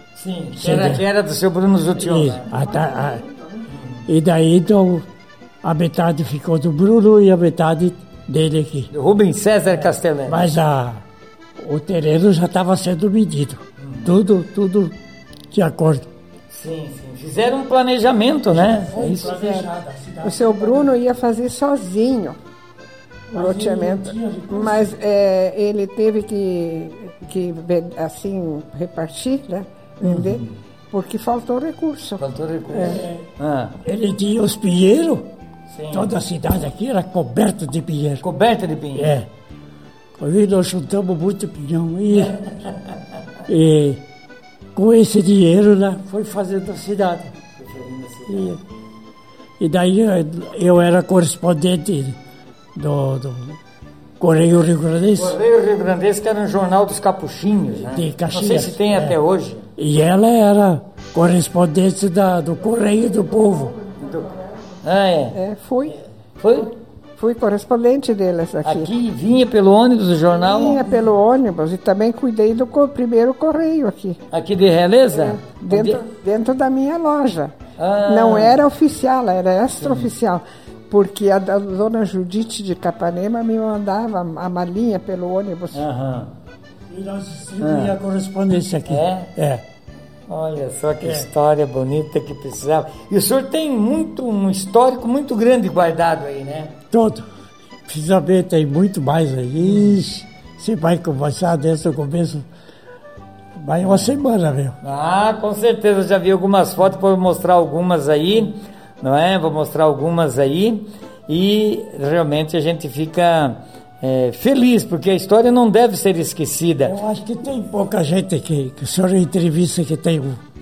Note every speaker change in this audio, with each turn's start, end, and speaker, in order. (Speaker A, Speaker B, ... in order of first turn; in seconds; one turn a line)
Speaker A: 0.1-2.5
Speaker B: 0.6-1.1
Speaker B: 2.0-3.2
Speaker C: 2.5-3.6
Speaker A: 3.7-4.1
Speaker B: 4.1-5.1
Speaker B: 5.6-8.9
Speaker A: 8.9-10.5
Speaker B: 9.8-11.0
Speaker B: 11.6-15.0
Speaker A: 13.8-14.2
Speaker B: 15.5-16.1
Speaker A: 16.5-19.3
Speaker B: 18.5-20.9
Speaker C: 19.0-19.7
Speaker C: 20.2-22.4
Speaker B: 23.3-25.0
Speaker C: 23.4-33.0
Speaker A: 30.0-30.5
Speaker A: 32.2-33.8
Speaker B: 32.7-33.3
Speaker B: 33.8-35.3
Speaker A: 35.7-36.1
Speaker B: 35.9-38.2
Speaker A: 38.2-39.2
Speaker B: 39.0-39.3
Speaker B: 40.2-42.4
Speaker A: 42.1-43.0
Speaker B: 43.5-44.0
Speaker B: 44.8-47.3
Speaker A: 47.5-48.6
Speaker B: 48.3-48.6
Speaker B: 49.6-52.2
Speaker B: 52.8-53.6
Speaker B: 54.2-55.4
Speaker A: 55.1-59.7
Speaker B: 57.9-59.2
Speaker B: 59.8-63.7
Speaker C: 62.6-64.8
Speaker A: 64.0-64.3
Speaker A: 64.8-65.4
Speaker C: 65.3-66.0
Speaker A: 66.4-66.7
Speaker C: 67.2-68.9
Speaker A: 68.6-71.0
Speaker C: 70.3-74.2
Speaker A: 74.3-76.0
Speaker C: 75.1-77.5
Speaker A: 77.8-78.6
Speaker C: 78.1-85.8
Speaker A: 79.8-80.1
Speaker A: 85.7-86.3
Speaker B: 86.9-89.6
Speaker A: 87.6-87.9
Speaker A: 88.9-89.3
Speaker A: 90.3-96.8
Speaker B: 91.0-91.3
Speaker B: 96.9-97.3
Speaker B: 97.9-102.5
Speaker A: 99.6-100.0
Speaker B: 103.5-104.8
Speaker A: 103.8-104.2
Speaker A: 104.8-117.0
Speaker B: 116.8-120.4